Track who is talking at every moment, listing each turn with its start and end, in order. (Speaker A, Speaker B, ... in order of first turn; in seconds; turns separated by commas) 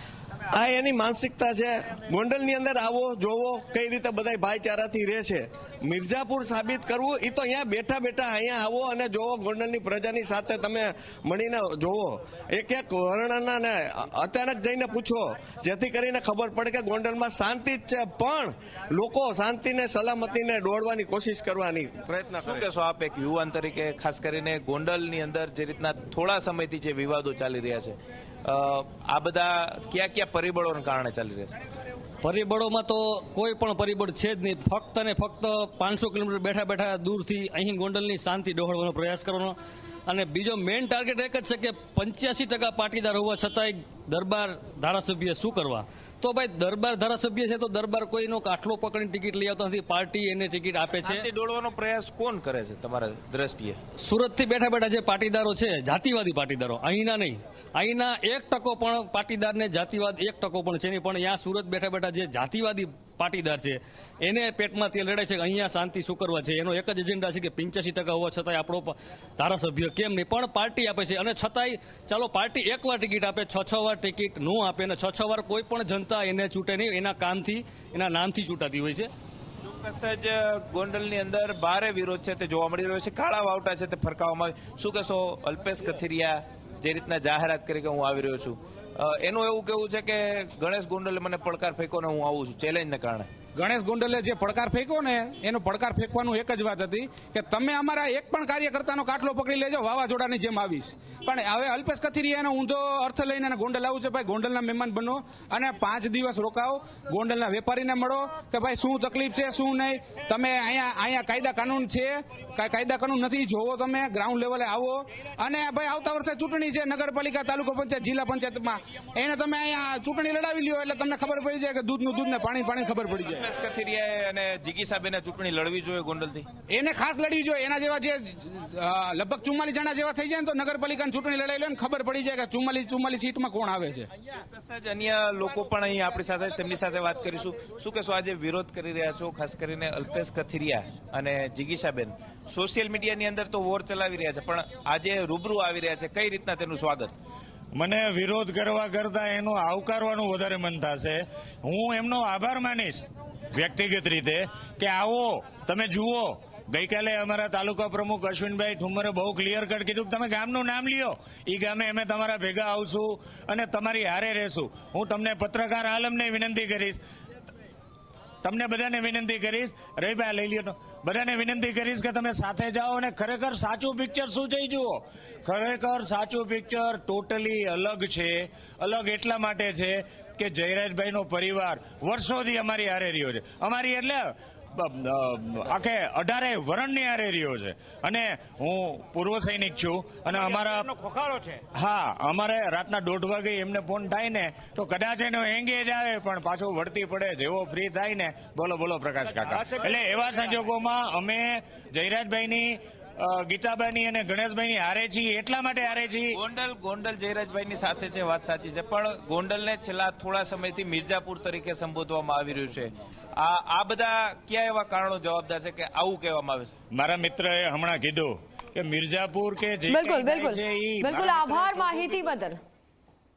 Speaker A: 0.5-22.7, Speaker B: 22.4-31.6, Speaker C: 32.2-39.5, Speaker C: 40.1-51.2, Speaker B: 51.0-53.8, Speaker C: 54.0-79.1, Speaker B: 79.6-93.3, Speaker D: 93.5-123.4, Speaker B: 123.2-126.5, Speaker D: 126.7-134.1, Speaker B: 134.3-147.1, Speaker E: 147.7-167.0, Speaker E: 168.4-206.4, Speaker B: 206.3-216.7, Speaker E: 216.9-222.2, Speaker F: 219.9-222.6